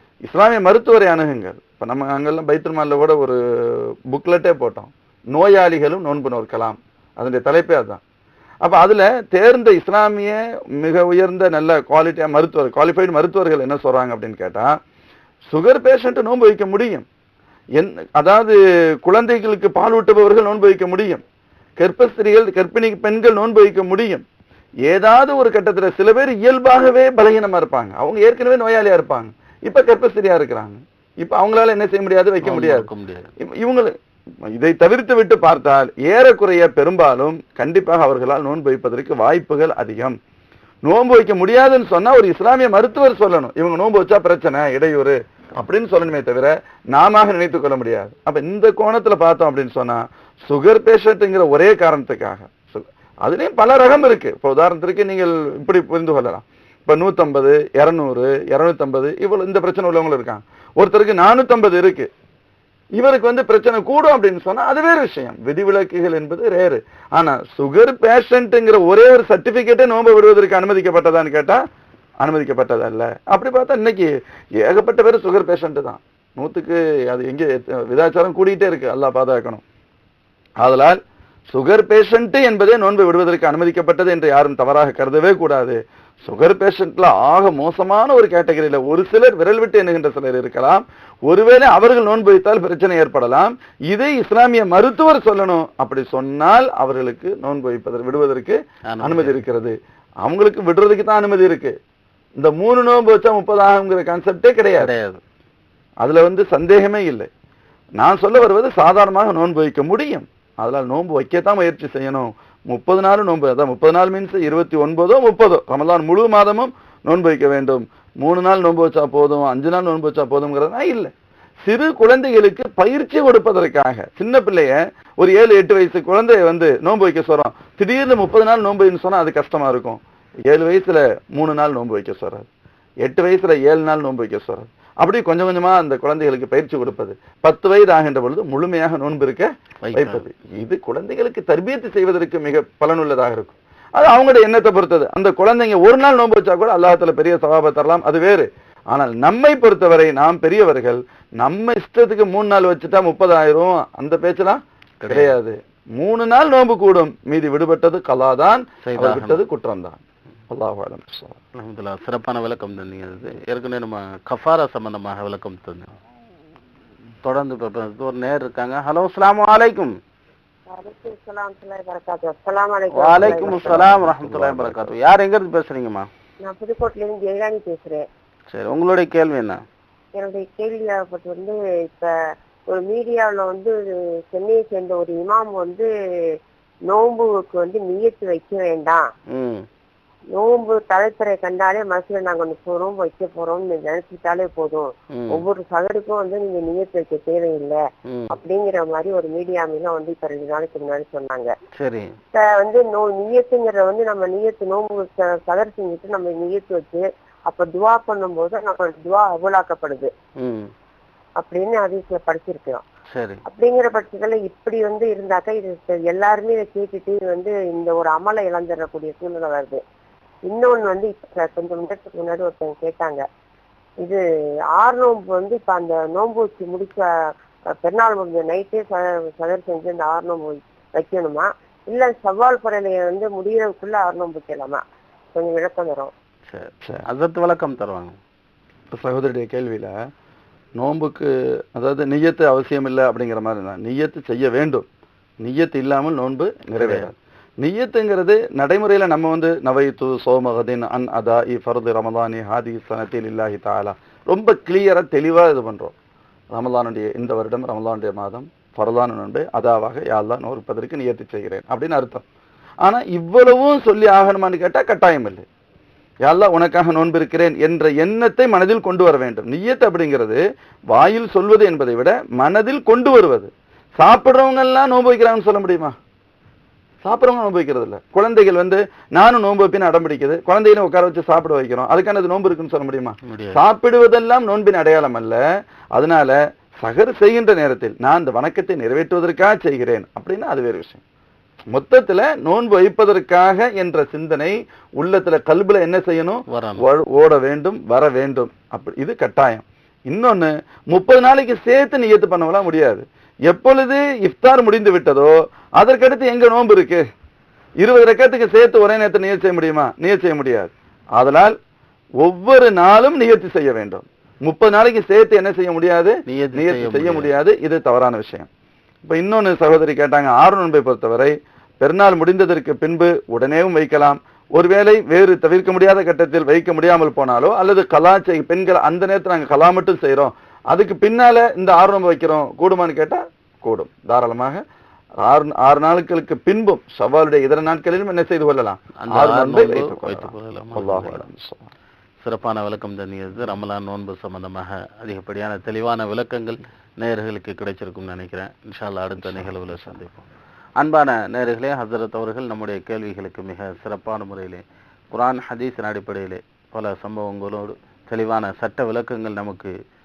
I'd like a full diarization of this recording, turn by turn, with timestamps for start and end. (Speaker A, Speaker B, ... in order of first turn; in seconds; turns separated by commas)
Speaker A: 0.2-8.0, Speaker A: 8.6-14.8, Speaker A: 15.5-17.1, Speaker A: 17.8-21.2, Speaker A: 21.8-24.2, Speaker A: 24.9-33.9, Speaker B: 32.4-33.3, Speaker A: 34.5-40.2, Speaker A: 40.8-62.1, Speaker A: 63.0-71.6, Speaker A: 72.2-79.6, Speaker A: 80.6-101.8, Speaker B: 98.9-99.4, Speaker A: 102.4-104.9, Speaker B: 104.8-105.2, Speaker A: 106.0-107.3, Speaker A: 108.0-121.1, Speaker A: 121.6-132.5, Speaker A: 133.0-160.0, Speaker B: 139.8-140.2, Speaker B: 155.0-155.3, Speaker B: 158.8-159.4, Speaker A: 160.5-161.4, Speaker B: 161.5-165.9, Speaker B: 167.2-170.0, Speaker C: 170.7-174.0, Speaker B: 172.9-176.1, Speaker A: 173.1-174.9, Speaker C: 176.4-178.1, Speaker B: 178.5-179.6, Speaker C: 180.2-182.1, Speaker C: 182.7-183.8, Speaker C: 184.3-185.9, Speaker C: 186.9-189.1, Speaker B: 189.3-189.7, Speaker C: 190.3-201.5, Speaker B: 195.1-195.4, Speaker B: 198.1-198.3, Speaker B: 201.8-202.1, Speaker C: 202.3-210.1, Speaker B: 210.4-210.7, Speaker C: 211.4-212.8, Speaker B: 213.1-213.4, Speaker C: 213.4-219.8, Speaker C: 220.5-223.2, Speaker C: 224.7-227.1, Speaker C: 227.7-234.8, Speaker C: 235.3-236.1, Speaker B: 236.5-238.2, Speaker A: 238.9-239.9, Speaker A: 240.8-244.8, Speaker A: 245.4-255.9, Speaker B: 246.8-247.1, Speaker A: 256.5-262.2, Speaker A: 262.8-265.4, Speaker A: 266.2-276.0, Speaker A: 277.0-285.4, Speaker B: 283.2-283.6, Speaker A: 285.9-291.0, Speaker A: 291.7-307.1, Speaker B: 296.5-296.8, Speaker A: 307.8-311.6, Speaker A: 312.2-318.5, Speaker B: 316.3-317.3, Speaker A: 319.1-334.6, Speaker A: 335.2-341.7, Speaker B: 339.0-341.3, Speaker B: 342.2-350.3, Speaker A: 349.2-350.0, Speaker B: 350.8-359.7